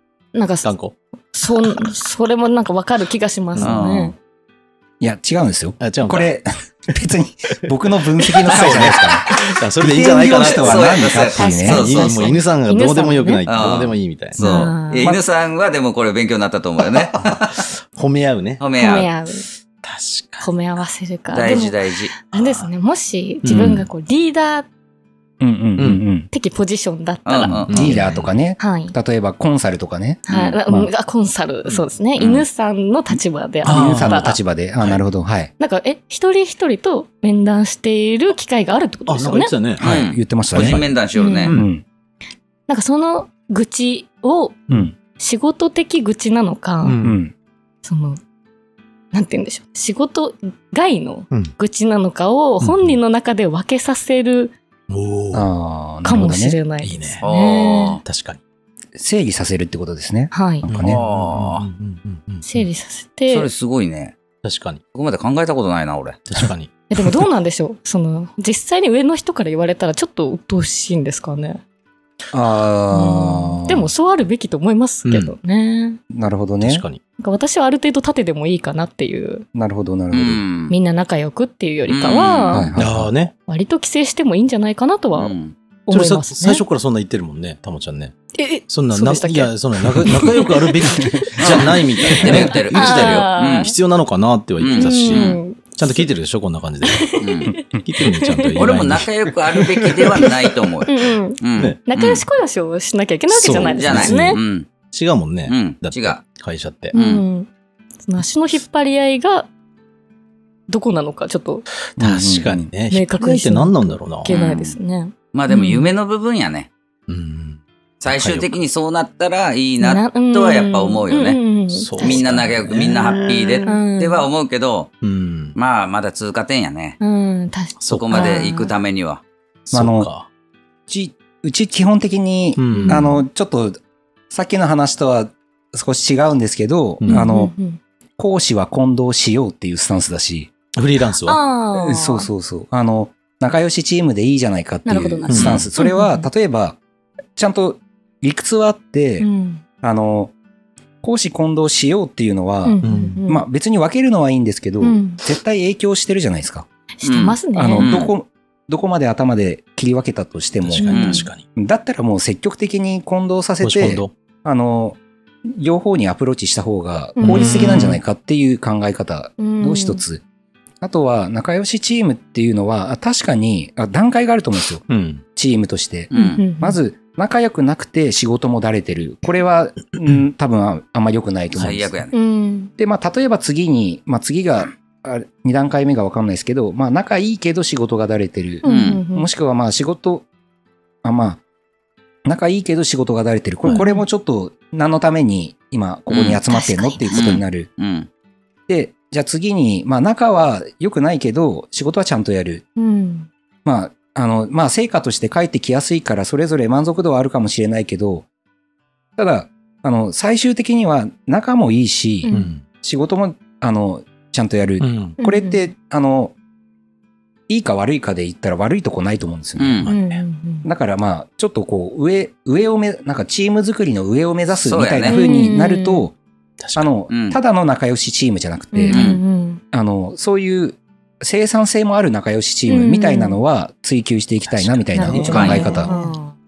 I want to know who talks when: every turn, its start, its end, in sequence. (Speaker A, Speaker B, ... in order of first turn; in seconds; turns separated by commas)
Speaker A: 0.3-0.7, Speaker B: 0.6-0.9, Speaker A: 1.3-4.1, Speaker C: 3.6-4.1, Speaker D: 5.0-11.8, Speaker B: 5.8-6.3, Speaker B: 8.4-11.0, Speaker C: 8.6-8.9, Speaker C: 10.5-12.3, Speaker A: 11.3-13.4, Speaker B: 11.6-14.7, Speaker C: 13.4-17.6, Speaker A: 14.3-15.2, Speaker B: 17.1-18.6, Speaker C: 18.6-19.1, Speaker A: 18.8-19.4, Speaker B: 19.8-20.5, Speaker A: 20.4-24.7, Speaker C: 21.3-22.1, Speaker B: 22.3-22.7, Speaker B: 23.4-23.9, Speaker D: 25.4-26.3, Speaker B: 25.8-26.0, Speaker A: 26.3-27.9, Speaker C: 27.2-28.0, Speaker B: 27.5-28.3, Speaker D: 27.7-30.9, Speaker A: 28.6-28.9, Speaker A: 30.3-34.4, Speaker C: 30.3-30.6, Speaker C: 32.2-32.5, Speaker B: 33.6-35.0, Speaker D: 33.6-35.5, Speaker A: 35.6-39.5, Speaker B: 39.1-39.8, Speaker D: 39.8-40.9, Speaker C: 39.8-41.5, Speaker B: 40.5-40.9, Speaker A: 41.1-41.5, Speaker D: 41.5-41.8, Speaker A: 42.7-47.0, Speaker B: 46.8-47.2, Speaker D: 47.0-47.3, Speaker A: 47.8-48.2, Speaker A: 49.1-54.5, Speaker B: 52.6-53.0, Speaker B: 54.9-55.5, Speaker D: 55.3-56.6, Speaker A: 56.0-58.0, Speaker B: 56.8-57.2, Speaker C: 57.2-58.0, Speaker B: 58.0-58.4, Speaker D: 59.0-61.0, Speaker A: 60.3-60.6, Speaker B: 60.7-62.6, Speaker C: 60.8-61.6, Speaker A: 62.4-63.5, Speaker C: 63.3-64.1, Speaker B: 64.4-64.8, Speaker C: 64.9-66.2, Speaker B: 66.3-67.2, Speaker A: 66.9-71.6, Speaker D: 72.3-73.9, Speaker A: 72.9-76.0, Speaker B: 75.0-75.3, Speaker D: 76.1-76.8, Speaker B: 76.6-77.0, Speaker A: 77.2-79.5, Speaker D: 79.5-80.4, Speaker C: 80.1-80.7, Speaker A: 80.7-82.8, Speaker C: 81.9-82.7, Speaker D: 82.5-83.1, Speaker B: 82.8-83.3, Speaker A: 83.5-85.3, Speaker C: 85.1-85.5, Speaker A: 85.9-86.6, Speaker B: 85.9-88.2, Speaker A: 88.3-93.7, Speaker B: 88.7-97.2, Speaker C: 91.4-93.7, Speaker C: 94.6-95.4, Speaker A: 94.7-96.1, Speaker A: 96.8-98.7, Speaker C: 97.2-97.6, Speaker B: 97.8-100.3, Speaker C: 98.5-102.2, Speaker A: 100.9-104.4, Speaker B: 103.3-104.4, Speaker C: 103.7-104.7, Speaker B: 104.9-106.9, Speaker C: 105.5-106.2, Speaker C: 106.9-107.2, Speaker A: 106.9-107.5, Speaker A: 108.0-109.5, Speaker A: 110.7-111.6, Speaker B: 111.9-114.3, Speaker D: 112.0-112.7, Speaker A: 112.9-115.9, Speaker C: 114.2-114.8, Speaker C: 115.3-116.7, Speaker B: 117.1-118.5, Speaker C: 118.0-121.4, Speaker A: 119.8-122.4, Speaker B: 121.7-123.7, Speaker C: 122.0-124.9, Speaker A: 123.6-124.3, Speaker B: 125.0-125.5, Speaker C: 125.5-127.0, Speaker A: 127.0-128.7, Speaker B: 127.8-128.4, Speaker C: 127.9-129.2, Speaker B: 129.7-130.3, Speaker D: 129.7-130.1, Speaker D: 130.9-133.8, Speaker B: 132.6-133.1, Speaker A: 132.7-133.2, Speaker D: 134.3-137.5, Speaker B: 137.0-137.3, Speaker A: 137.1-137.8, Speaker D: 138.2-140.5, Speaker B: 140.8-141.4, Speaker A: 141.2-142.3, Speaker D: 141.7-146.8, Speaker A: 144.8-146.3, Speaker B: 145.3-145.7, Speaker D: 147.3-149.3, Speaker A: 149.2-149.6, Speaker D: 149.8-150.3, Speaker D: 151.0-156.7, Speaker A: 152.6-153.4, Speaker B: 152.8-153.2, Speaker A: 154.8-155.2, Speaker A: 157.0-157.9, Speaker C: 157.0-158.1, Speaker D: 157.5-170.2, Speaker B: 160.6-161.4, Speaker A: 160.8-161.3, Speaker C: 160.9-161.2, Speaker B: 163.6-164.1, Speaker A: 167.2-167.8, Speaker B: 167.2-168.0, Speaker A: 169.4-170.0, Speaker D: 170.8-181.9, Speaker B: 174.9-175.2, Speaker C: 176.1-176.4, Speaker A: 176.1-176.8, Speaker C: 181.6-182.1, Speaker A: 182.1-182.7, Speaker D: 182.8-190.2, Speaker A: 188.6-189.3, Speaker C: 188.6-189.0, Speaker D: 191.0-191.4, Speaker D: 192.2-197.7, Speaker A: 193.7-194.0, Speaker C: 196.1-196.4, Speaker A: 196.5-197.0, Speaker C: 197.1-198.1, Speaker D: 198.7-202.6, Speaker A: 202.8-203.3, Speaker D: 203.6-208.2, Speaker D: 209.2-216.3, Speaker B: 212.3-212.6, Speaker B: 214.8-215.2, Speaker A: 215.2-215.6, Speaker D: 217.5-219.9, Speaker C: 219.6-219.9, Speaker B: 219.8-220.2, Speaker A: 219.9-220.7, Speaker D: 220.6-226.1, Speaker C: 224.6-225.2, Speaker A: 225.1-226.1, Speaker B: 226.6-226.9, Speaker D: 226.8-229.0, Speaker C: 227.1-227.4, Speaker A: 228.7-229.6, Speaker C: 228.9-229.2, Speaker D: 229.7-235.9, Speaker A: 232.7-233.4, Speaker B: 234.5-236.2, Speaker A: 234.9-236.3, Speaker C: 235.3-235.8